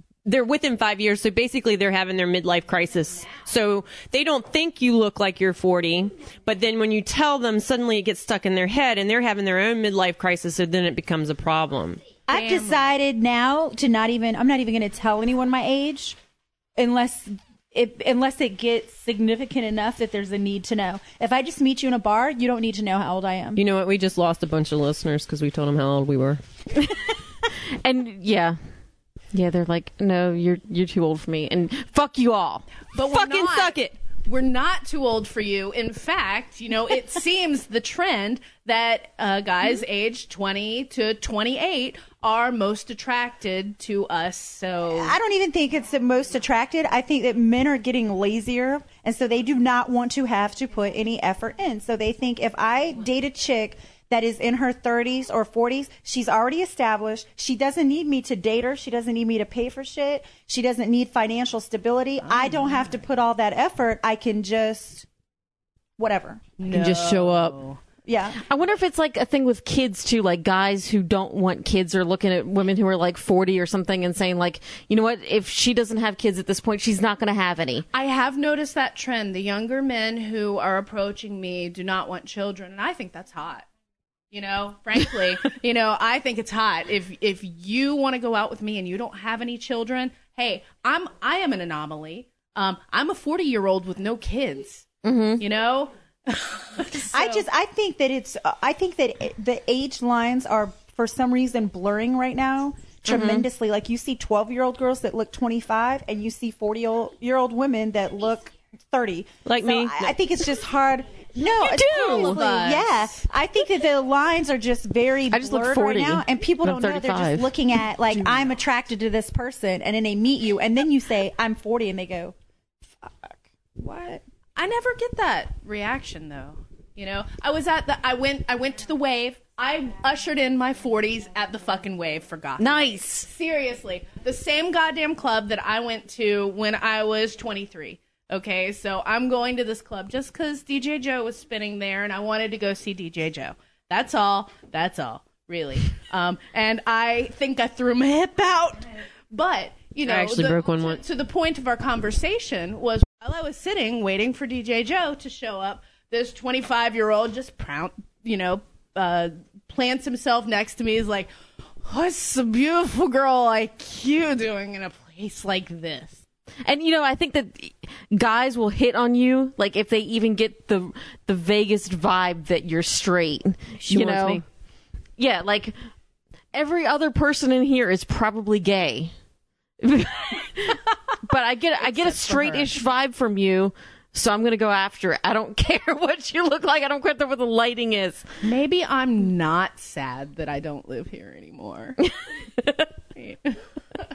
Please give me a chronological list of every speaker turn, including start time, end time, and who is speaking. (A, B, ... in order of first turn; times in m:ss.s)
0:00.2-0:12.0 A
0:12.3-0:16.2 B
0:12.3-0:12.9 C
0:16.8-0:23.6 B
0:23.6-0:26.4 A
0:26.7-0:28.6 D
0:29.3-0:32.6 D
0:32.9-0:45.2 C
0:33.0-0:33.9 A
0:44.9-1:05.0 B
1:02.2-1:03.0 C
1:06.0-1:06.4 B
1:06.6-1:07.8 C
1:07.0-1:07.4 D
1:08.0-1:08.4 B
1:08.4-1:17.8 D
1:17.9-1:23.7 C
1:24.3-1:34.8 C
1:35.0-1:35.4 D
1:35.4-1:37.4 C
1:37.1-2:02.3 B
1:43.0-1:43.5 D
1:49.4-1:50.2 A
1:51.4-1:53.2 C
1:55.3-1:57.5 D
2:02.9-2:04.2 B
2:04.6-2:41.3 C
2:12.6-2:13.3 D
2:30.0-2:31.0 A
2:41.8-2:46.2 C
2:46.6-2:54.4 D
2:53.8-2:54.4 A
2:55.2-2:55.7 D
2:56.5-2:59.1 D
2:59.8-3:08.2 D
3:02.0-3:02.6 C
3:08.4-3:12.0 C
3:12.6-3:12.9 D
3:13.2-3:13.6 C